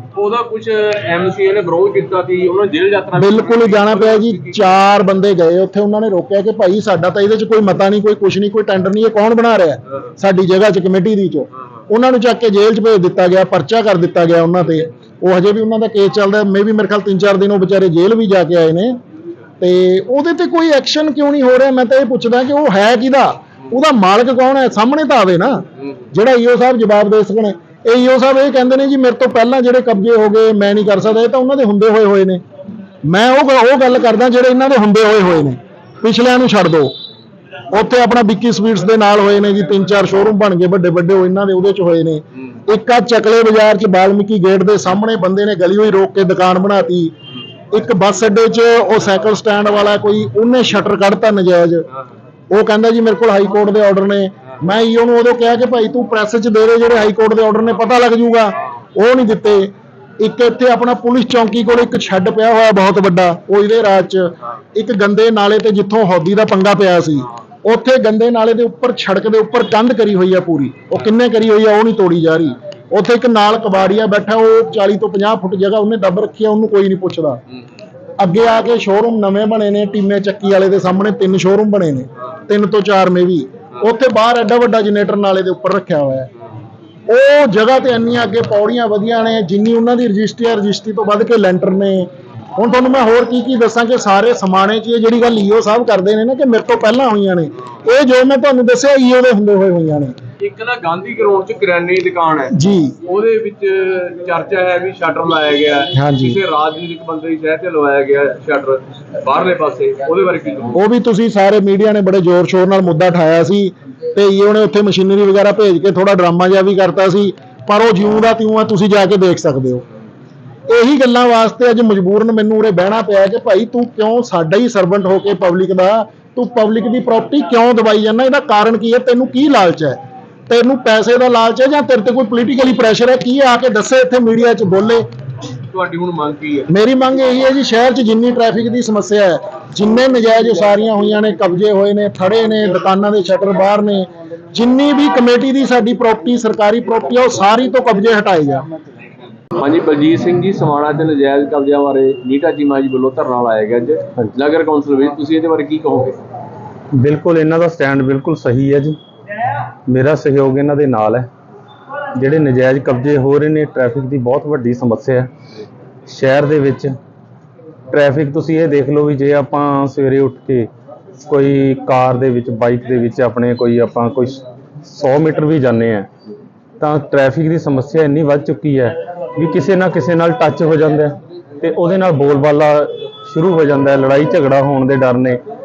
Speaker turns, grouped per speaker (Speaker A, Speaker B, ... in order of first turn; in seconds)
Speaker A: 0.1-4.7, 100.4-110.8, 135.7-136.7, 149.6-156.2
Speaker B: 3.2-19.0, 19.6-32.4, 33.0-36.9, 37.7-47.1, 47.7-51.9, 52.5-77.4, 78.2-86.3, 87.1-100.1, 102.5-103.0, 106.0-106.4, 110.8-119.8, 120.7-135.0, 136.7-148.7
Speaker C: 157.0-159.0, 159.9-161.3, 162.2-165.3, 166.1-166.9, 167.9-170.7, 171.3-176.1, 176.8-185.4